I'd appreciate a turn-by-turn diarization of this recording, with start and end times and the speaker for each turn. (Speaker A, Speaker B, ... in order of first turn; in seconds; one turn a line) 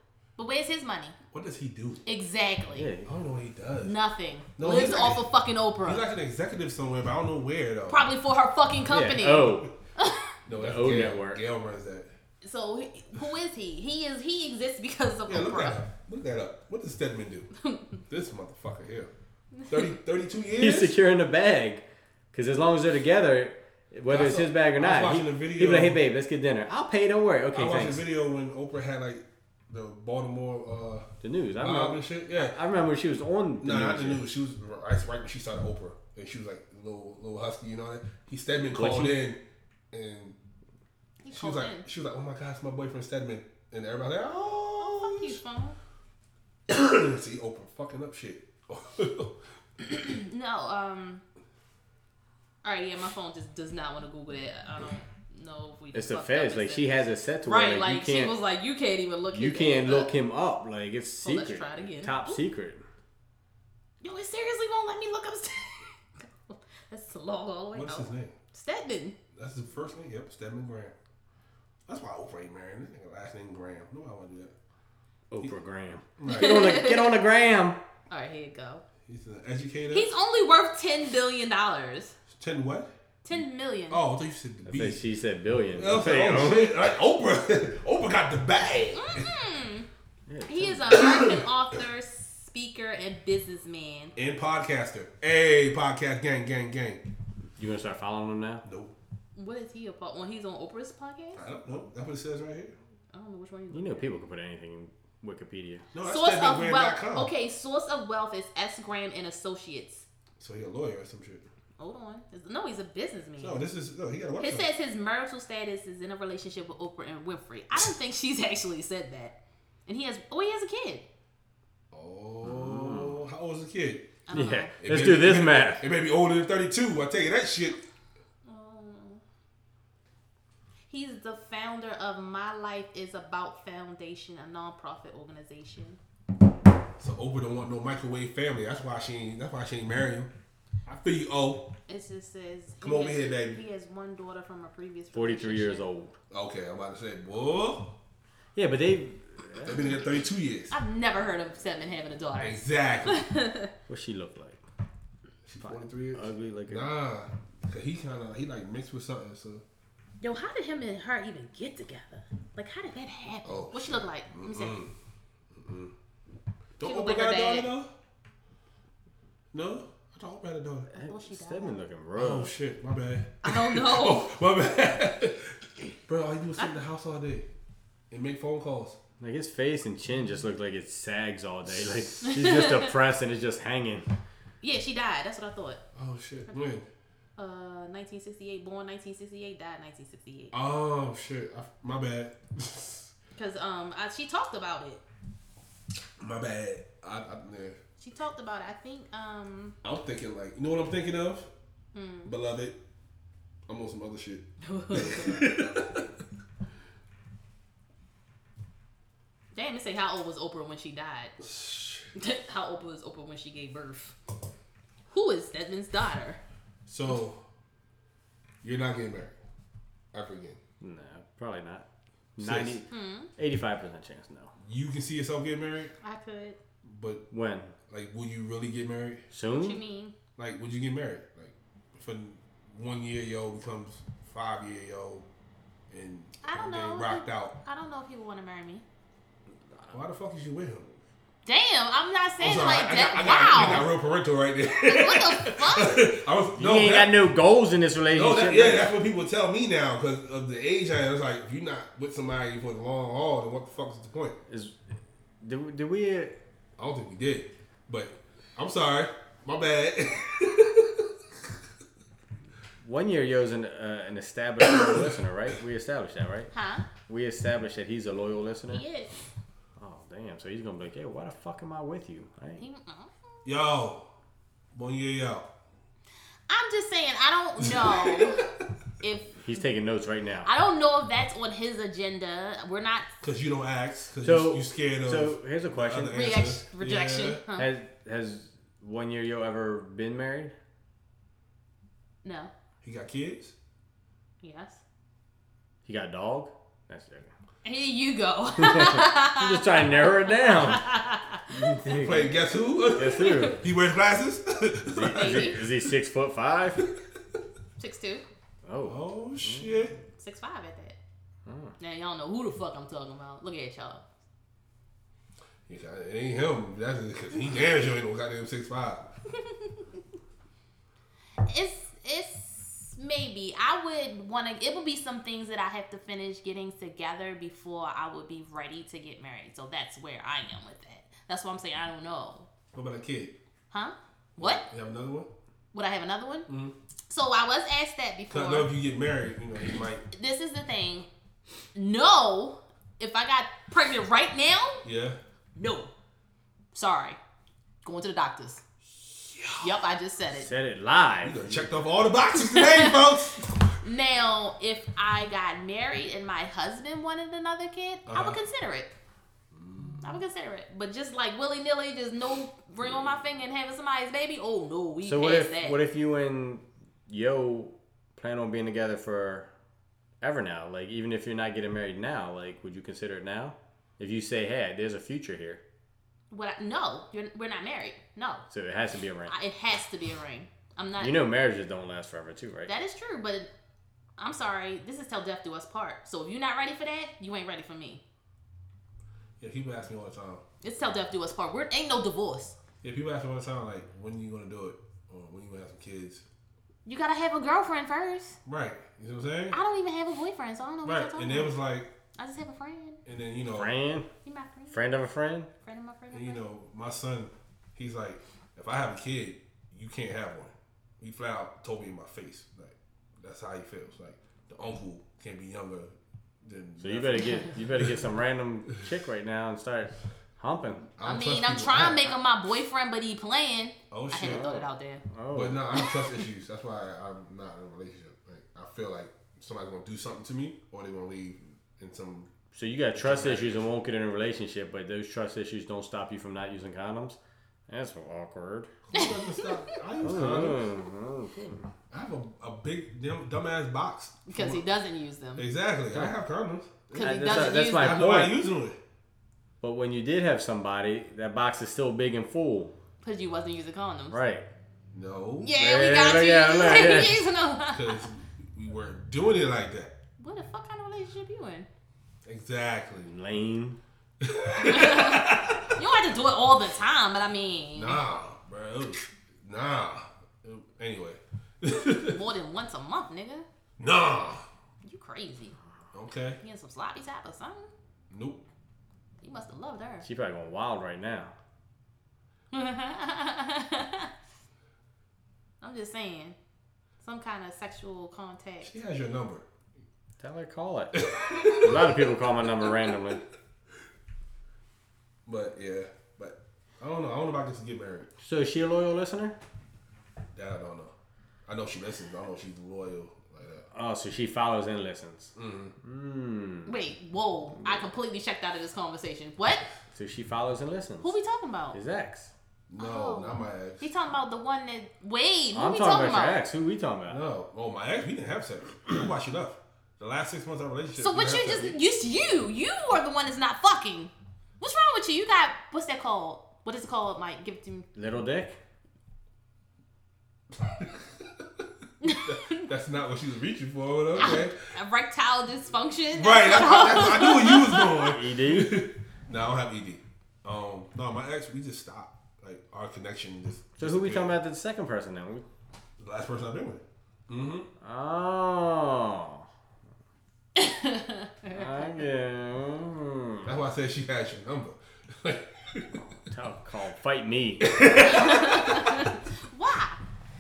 Speaker A: 0.4-1.1
Speaker B: 1.3-2.0
Speaker A: 2.0-2.9
Speaker C: 2.7-3.1
Speaker B: 3.0-3.9
Speaker A: 3.8-6.0
Speaker B: 4.6-5.2
Speaker B: 5.8-8.0
Speaker A: 7.9-10.4
Speaker C: 8.9-9.7
Speaker B: 10.5-12.1
Speaker C: 10.5-11.4
Speaker A: 12.4-15.8
Speaker B: 15.3-17.5
Speaker A: 17.6-18.0
Speaker B: 18.1-19.1
Speaker A: 19.6-19.9
Speaker B: 19.7-20.9
Speaker C: 20.6-28.0
Speaker B: 24.1-26.0
Speaker B: 27.5-31.1
Speaker C: 31.2-34.2
Speaker B: 31.6-32.5
Speaker B: 33.6-39.4
Speaker C: 38.7-39.2
Speaker B: 39.9-40.4
Speaker A: 41.2-41.9
Speaker B: 41.3-45.4
Speaker A: 44.8-45.8
Speaker B: 46.7-49.4
Speaker A: 49.9-51.2
Speaker A: 52.6-60.1
Speaker C: 55.9-58.4
Speaker C: 59.3-62.8
Speaker A: 61.2-62.4
Speaker A: 64.0-69.2
Speaker B: 67.7-68.3
Speaker B: 69.3-70.9
Speaker B: 71.9-74.5
Speaker C: 75.3-77.8
Speaker B: 76.2-76.8
Speaker A: 76.2-77.1
Speaker A: 78.1-78.8
Speaker B: 79.0-80.1
Speaker A: 79.9-82.1
Speaker B: 82.3-82.9
Speaker A: 83.2-84.0
Speaker B: 83.9-85.0
Speaker C: 84.7-86.8
Speaker B: 85.8-89.3
Speaker A: 88.9-89.9
Speaker C: 90.3-91.0
Speaker A: 90.5-94.1
Speaker B: 94.2-97.0
Speaker C: 97.6-98.6
Speaker B: 98.6-98.9
Speaker A: 99.3-101.4
Speaker B: 101.3-102.8
Speaker A: 103.1-104.1
Speaker C: 103.7-105.8
Speaker B: 105.9-107.3
Speaker A: 106.0-110.1
Speaker B: 110.4-111.5
Speaker A: 111.8-113.6
Speaker B: 113.4-114.7
Speaker A: 114.4-121.0
Speaker B: 121.9-124.1
Speaker C: 122.4-123.1
Speaker A: 124.3-124.7
Speaker C: 124.3-125.8
Speaker B: 124.8-127.8
Speaker A: 128.4-129.2
Speaker A: 130.9-136.0
Speaker B: 137.0-140.3
Speaker B: 140.9-141.7
Speaker A: 141.9-145.9
Speaker B: 142.8-143.6
Speaker C: 145.1-146.1
Speaker B: 146.3-147.9
Speaker C: 148.5-149.9
Speaker B: 149.6-150.7
Speaker A: 150.7-153.7
Speaker B: 152.4-153.3
Speaker C: 153.9-154.6
Speaker B: 155.4-159.6
Speaker C: 155.6-156.9
Speaker A: 160.2-164.8
Speaker B: 163.4-164.9
Speaker B: 165.5-165.9
Speaker B: 166.8-167.9
Speaker A: 166.8-167.7
Speaker B: 169.5-170.9
Speaker C: 170.9-172.5
Speaker A: 170.9-171.8
Speaker B: 172.2-177.4
Speaker A: 173.4-174.3
Speaker B: 178.1-179.0
Speaker C: 179.2-184.1
Speaker A: 182.2-182.9
Speaker A: 184.6-185.8
Speaker B: 185.9-186.9
Speaker A: 187.4-190.5
Speaker B: 190.5-193.1
Speaker A: 193.3-195.0
Speaker B: 196.2-197.8
Speaker A: 198.0-199.8
Speaker B: 199.8-201.5
Speaker A: 201.9-202.3
Speaker B: 202.2-202.8
Speaker B: 203.7-206.1
Speaker A: 204.6-205.5
Speaker A: 209.5-211.3
Speaker B: 211.4-212.1
Speaker A: 212.2-214.2
Speaker A: 215.1-216.4
Speaker B: 216.8-217.4
Speaker B: 218.6-219.3
Speaker B: 220.1-220.6
Speaker C: 220.8-224.5
Speaker B: 222.4-222.8
Speaker A: 222.9-223.3
Speaker B: 224.6-225.9
Speaker A: 226.0-226.6
Speaker B: 226.8-227.2
Speaker C: 227.3-227.7
Speaker B: 227.9-229.2
Speaker C: 229.3-229.8
Speaker A: 229.5-230.1
Speaker B: 230.4-235.2
Speaker B: 235.9-237.6
Speaker A: 236.4-238.8
Speaker B: 239.9-241.0
Speaker A: 241.4-243.9
Speaker B: 242.4-247.2
Speaker A: 244.8-246.1
Speaker C: 246.6-248.9
Speaker B: 248.1-254.4
Speaker C: 254.5-254.8
Speaker C: 255.4-256.4
Speaker B: 256.8-261.5
Speaker C: 262.8-266.5
Speaker A: 266.5-266.9
Speaker C: 267.1-268.8
Speaker A: 268.7-269.1
Speaker C: 269.8-272.6
Speaker A: 272.6-273.1
Speaker B: 273.4-274.1
Speaker B: 274.7-275.5
Speaker A: 276.5-278.4
Speaker B: 277.6-278.7
Speaker A: 279.0-279.7
Speaker C: 279.4-280.5
Speaker A: 280.4-283.1
Speaker B: 283.2-287.4
Speaker C: 284.2-286.2
Speaker A: 286.1-287.7
Speaker C: 287.6-290.5
Speaker A: 292.2-292.5
Speaker B: 292.8-293.5
Speaker A: 294.4-294.8
Speaker C: 295.9-297.3
Speaker A: 297.6-302.0
Speaker C: 298.6-301.0
Speaker C: 301.5-302.3
Speaker B: 301.8-305.8
Speaker C: 302.9-303.6
Speaker A: 303.2-303.5
Speaker C: 304.9-306.9
Speaker A: 305.1-305.6
Speaker A: 307.8-308.2
Speaker C: 308.6-309.7
Speaker B: 308.9-309.9
Speaker A: 310.2-311.0
Speaker C: 311.4-311.7
Speaker A: 311.8-314.0
Speaker B: 315.7-319.1
Speaker A: 319.4-319.7
Speaker A: 321.4-332.5
Speaker B: 332.7-333.3
Speaker A: 333.7-334.6
Speaker B: 334.4-335.3
Speaker A: 335.7-336.5
Speaker B: 336.5-336.7
Speaker A: 337.1-338.7
Speaker B: 338.3-340.0
Speaker A: 340.1-341.1
Speaker A: 341.7-344.8
Speaker B: 344.8-345.2
Speaker A: 345.6-345.9
Speaker A: 346.7-347.2
Speaker A: 347.8-348.6
Speaker B: 349.1-349.7
Speaker A: 349.6-350.5
Speaker C: 350.3-351.7
Speaker B: 351.2-353.6
Speaker A: 352.4-353.0
Speaker A: 353.8-358.9
Speaker B: 358.1-358.4
Speaker B: 359.5-360.1
Speaker A: 360.0-365.8
Speaker C: 365.0-369.5
Speaker C: 370.2-375.6
Speaker A: 376.3-378.4
Speaker C: 378.5-379.3
Speaker A: 379.3-381.2
Speaker C: 381.0-382.7
Speaker A: 382.6-383.5
Speaker A: 384.2-388.0
Speaker B: 389.4-390.4
Speaker A: 390.6-392.6
Speaker B: 392.8-396.2
Speaker A: 396.9-398.4
Speaker B: 398.4-399.6
Speaker A: 399.5-401.5
Speaker B: 400.8-401.9
Speaker A: 402.2-403.0
Speaker B: 403.1-403.7
Speaker C: 403.5-404.1
Speaker A: 404.2-404.8
Speaker C: 404.7-405.5
Speaker A: 405.6-406.4
Speaker B: 406.1-418.0
Speaker C: 416.8-420.9
Speaker B: 421.0-422.1
Speaker A: 421.0-425.0
Speaker B: 423.9-424.4
Speaker C: 424.2-425.6
Speaker B: 425.3-432.3
Speaker C: 432.5-438.7
Speaker B: 432.9-433.7
Speaker B: 438.9-440.7
Speaker A: 438.9-439.8
Speaker C: 440.0-441.7
Speaker B: 441.9-444.6
Speaker A: 444.3-445.4
Speaker B: 445.4-448.8
Speaker A: 446.9-448.0
Speaker C: 447.0-448.4
Speaker C: 449.6-452.7
Speaker A: 453.0-454.2
Speaker C: 454.1-454.5
Speaker B: 454.9-455.5
Speaker A: 455.4-458.1
Speaker C: 455.6-457.2
Speaker B: 457.7-459.9
Speaker A: 460.2-461.7
Speaker B: 462.2-463.1
Speaker C: 463.0-463.8
Speaker B: 464.2-465.8
Speaker A: 464.6-468.0
Speaker B: 467.7-472.2
Speaker A: 472.0-473.4
Speaker B: 473.8-474.4
Speaker A: 474.8-475.6
Speaker B: 475.9-476.4
Speaker A: 476.4-477.7
Speaker B: 478.1-478.4
Speaker A: 479.2-480.1
Speaker C: 480.0-481.3
Speaker A: 482.5-484.1
Speaker A: 485.6-486.4
Speaker A: 487.0-488.8
Speaker B: 488.6-489.4
Speaker C: 490.2-493.2
Speaker B: 490.9-492.0
Speaker B: 495.2-498.1
Speaker C: 498.2-499.4
Speaker B: 500.3-500.9
Speaker B: 501.5-503.6
Speaker C: 503.7-506.7
Speaker B: 505.4-505.7
Speaker A: 506.6-509.6
Speaker C: 509.9-511.1
Speaker A: 511.0-511.8
Speaker C: 511.7-512.3
Speaker B: 512.7-513.9
Speaker A: 512.8-516.4
Speaker C: 515.5-517.2
Speaker B: 517.1-521.8
Speaker A: 521.0-527.9
Speaker C: 527.9-528.6
Speaker B: 530.5-531.6
Speaker A: 532.0-532.7
Speaker B: 532.2-534.5
Speaker A: 534.1-537.9
Speaker B: 536.1-544.4
Speaker C: 538.0-538.8
Speaker C: 543.8-545.4
Speaker B: 546.0-547.7
Speaker C: 547.8-549.5
Speaker A: 550.5-551.9
Speaker C: 551.5-553.6
Speaker B: 553.4-556.0
Speaker C: 556.1-557.7
Speaker B: 557.6-558.9
Speaker A: 558.0-560.0